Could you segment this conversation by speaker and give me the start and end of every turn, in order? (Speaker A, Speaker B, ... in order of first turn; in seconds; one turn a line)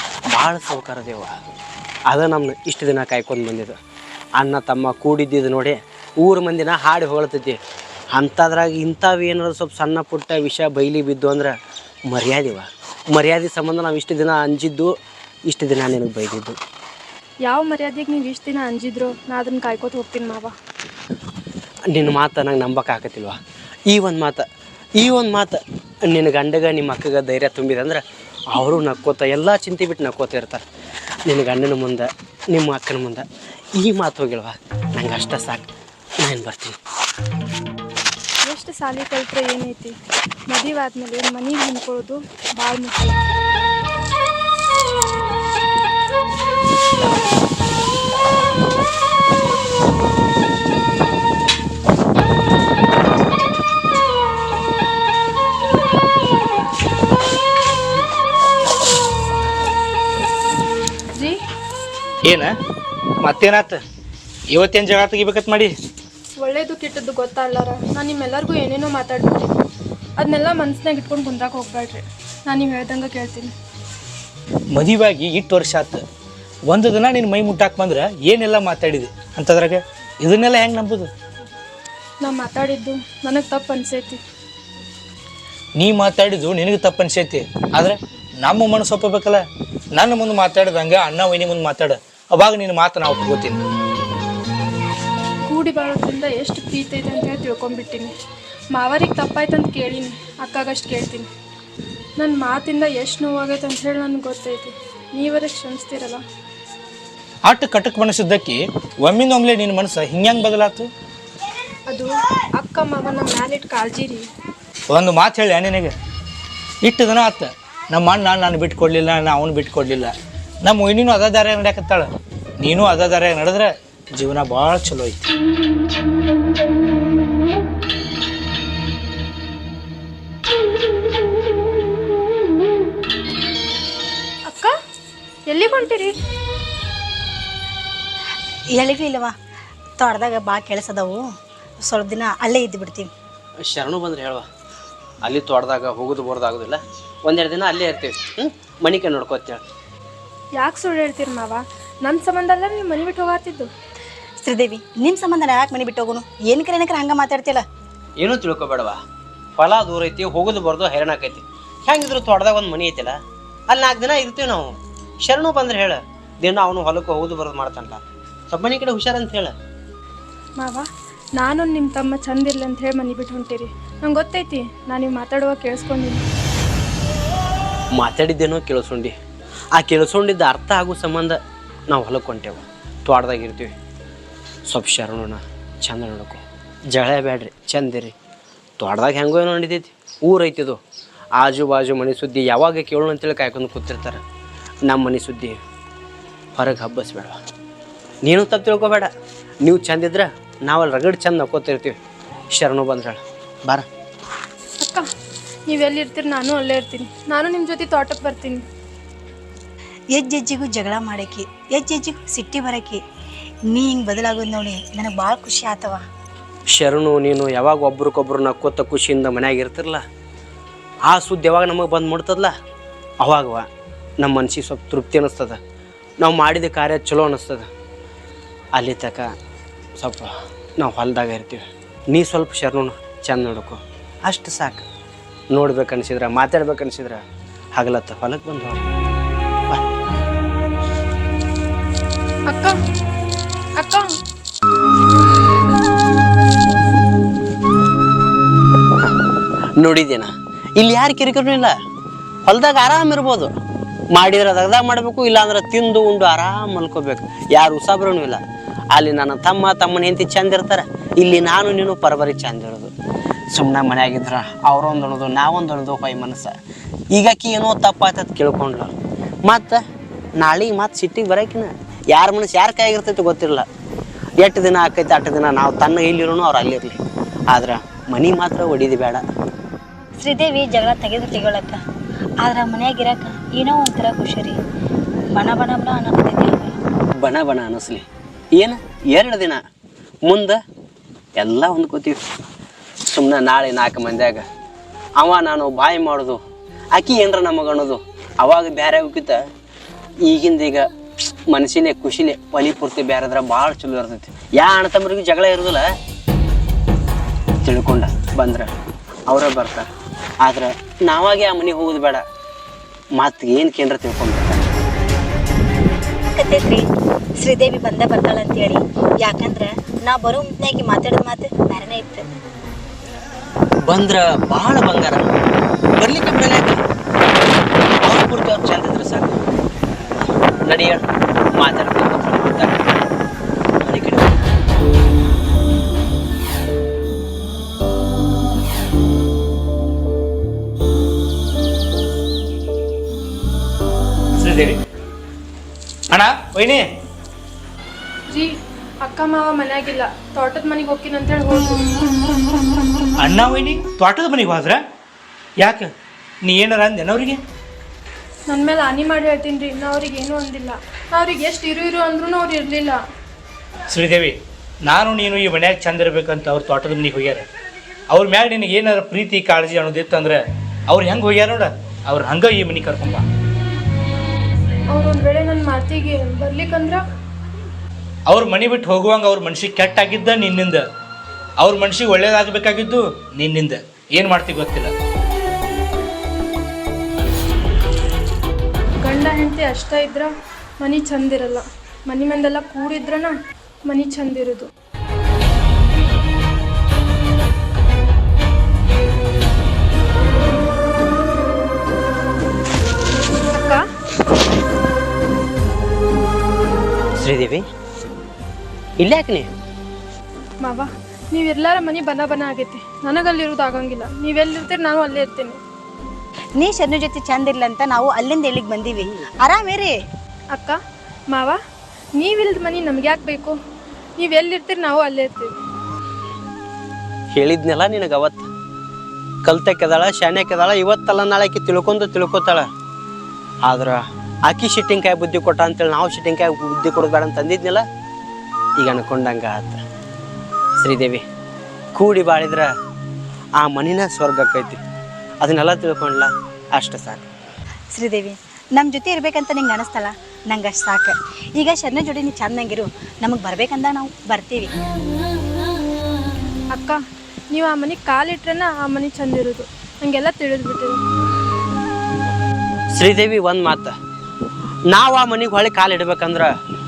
Speaker A: 0.3-1.4
Speaker A: 2.1-3.8
Speaker A: 4.3-7.6
Speaker A: 8.1-11.6
Speaker A: 12.1-16.6
Speaker B: 17.4-20.5
Speaker A: 21.9-24.4
Speaker A: 25.0-30.6
Speaker A: 31.2-35.7
Speaker A: 36.2-36.8
Speaker B: 38.4-40.0
Speaker B: 40.5-43.2
Speaker C: 62.2-62.5
Speaker C: 63.2-63.8
Speaker C: 64.5-65.7
Speaker B: 66.4-69.5
Speaker B: 70.2-73.5
Speaker C: 74.7-76.0
Speaker C: 76.7-81.1
Speaker B: 82.2-84.2
Speaker C: 85.8-89.4
Speaker C: 89.9-93.6
Speaker B: 95.5-98.1
Speaker B: 98.7-101.3
Speaker B: 102.2-106.2
Speaker C: 107.5-110.9
Speaker B: 111.9-114.2
Speaker C: 114.9-115.9
Speaker C: 116.8-120.1
Speaker C: 120.6-122.1
Speaker C: 122.6-125.3
Speaker B: 134.5-134.7
Speaker B: 135.5-136.2
Speaker D: 138.7-139.3
Speaker D: 140.0-141.3
Speaker D: 141.8-143.1
Speaker A: 143.6-144.4
Speaker A: 145.2-149.6
Speaker B: 150.6-153.7
Speaker D: 154.4-157.6
Speaker A: 158.2-159.0
Speaker A: 159.6-163.2
Speaker A: 163.7-169.5
Speaker B: 170.6-176.2
Speaker A: 177.9-179.1
Speaker A: 179.7-181.4
Speaker A: 181.9-183.7
Speaker A: 184.7-186.4
Speaker A: 186.9-188.1
Speaker A: 188.8-190.8
Speaker A: 191.4-194.2
Speaker A: 194.8-195.6
Speaker A: 196.5-197.4
Speaker A: 198.2-199.1
Speaker A: 199.6-202.0
Speaker A: 202.5-203.8
Speaker B: 204.8-205.1
Speaker B: 205.7-208.6
Speaker D: 210.1-213.0
Speaker D: 213.7-216.0
Speaker A: 216.7-220.0
Speaker A: 221.0-222.5
Speaker A: 223.2-223.7
Speaker A: 224.2-225.6
Speaker A: 226.2-227.7
Speaker A: 228.7-229.3
Speaker A: 230.0-234.8
Speaker A: 235.5-237.2
Speaker A: 237.7-238.8
Speaker B: 242.5-242.8
Speaker B: 243.8-244.1
Speaker A: 249.8-251.8
Speaker A: 252.4-253.5
Speaker A: 254.1-258.4
Speaker A: 258.9-262.9
Speaker A: 263.5-266.6
Speaker A: 267.1-268.9
Speaker A: 269.4-269.8
Speaker A: 270.4-273.6
Speaker A: 274.4-277.0
Speaker A: 277.5-279.2
Speaker D: 280.2-281.8
Speaker D: 282.4-284.6
Speaker D: 285.3-286.8
Speaker A: 287.2-288.0
Speaker A: 288.6-289.6
Speaker A: 290.2-290.6
Speaker A: 291.4-292.2
Speaker A: 293.0-294.4
Speaker A: 295.2-296.4
Speaker A: 296.9-299.4
Speaker A: 300.2-300.9
Speaker A: 301.5-305.9
Speaker A: 307.6-308.7
Speaker A: 309.3-309.9
Speaker A: 310.4-312.2
Speaker A: 313.1-314.7
Speaker D: 316.3-316.9
Speaker D: 317.4-322.3
Speaker A: 323.9-325.2
Speaker A: 326.0-326.8
Speaker A: 328.0-329.4
Speaker A: 330.6-332.9
Speaker A: 333.8-334.3
Speaker C: 344.4-344.8
Speaker C: 346.1-346.8
Speaker B: 348.3-351.8
Speaker C: 353.2-354.8
Speaker C: 355.6-355.9
Speaker C: 356.4-357.4
Speaker B: 358.5-363.0
Speaker C: 363.9-367.4
Speaker C: 368.1-370.4
Speaker C: 370.9-373.2
Speaker B: 374.9-377.0
Speaker C: 378.3-380.8
Speaker C: 381.6-384.9
Speaker B: 389.0-393.3
Speaker B: 393.9-394.7
Speaker B: 403.5-403.8
Speaker A: 407.1-407.6
Speaker A: 409.0-409.5
Speaker B: 410.6-415.6
Speaker D: 416.6-419.9
Speaker B: 420.5-420.8
Speaker B: 421.3-421.6
Speaker B: 422.2-423.6
Speaker B: 424.2-425.5
Speaker A: 427.3-428.4
Speaker A: 429.4-432.7
Speaker A: 433.6-437.8
Speaker A: 438.8-439.8
Speaker A: 440.8-441.2
Speaker A: 441.9-442.7
Speaker A: 443.6-444.8
Speaker A: 445.4-447.3
Speaker D: 447.9-454.7
Speaker B: 456.7-457.0
Speaker B: 457.5-461.0
Speaker A: 462.9-463.9
Speaker A: 464.9-466.5